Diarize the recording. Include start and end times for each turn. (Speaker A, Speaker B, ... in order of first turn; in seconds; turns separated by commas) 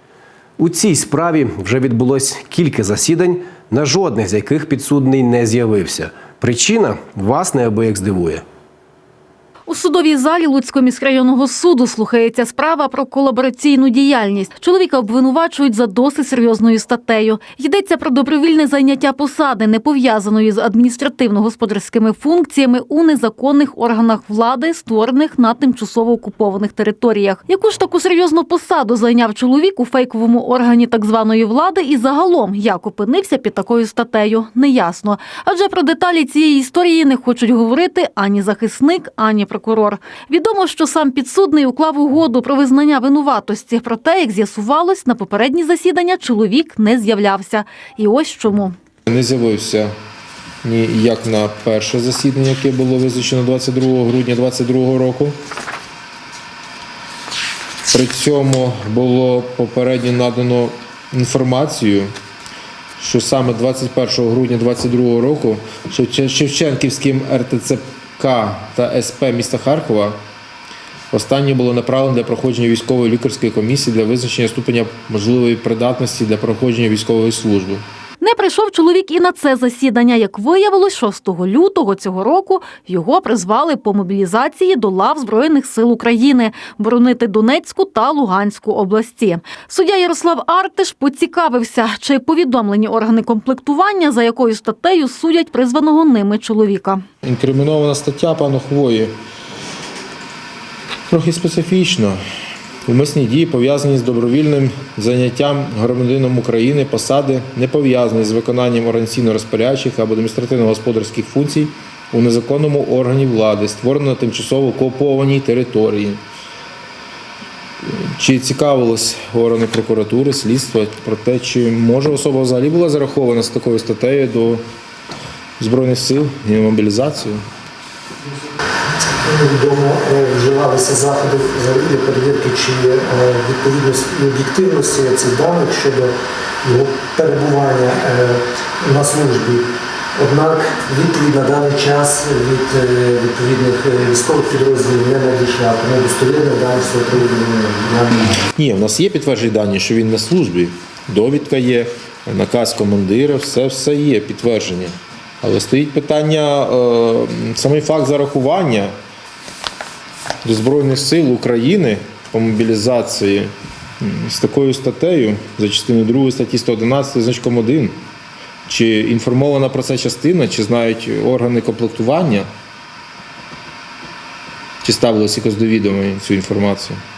Speaker A: 0.6-8.4, Speaker B: 9.7-48.7, Speaker C: 49.1-49.9, Speaker C: 50.6-55.4, Speaker C: 57.9-62.1, Speaker C: 63.0-70.2, Speaker C: 71.1-77.8, Speaker B: 78.2-97.0, Speaker C: 97.2-99.1, Speaker C: 101.1-102.2, Speaker C: 102.8-116.2, Speaker C: 117.8-124.6, Speaker C: 125.6-127.4, Speaker D: 129.2-148.3, Speaker C: 148.4-158.9, Speaker C: 160.4-168.0, Speaker C: 168.7-172.5, Speaker C: 174.8-177.0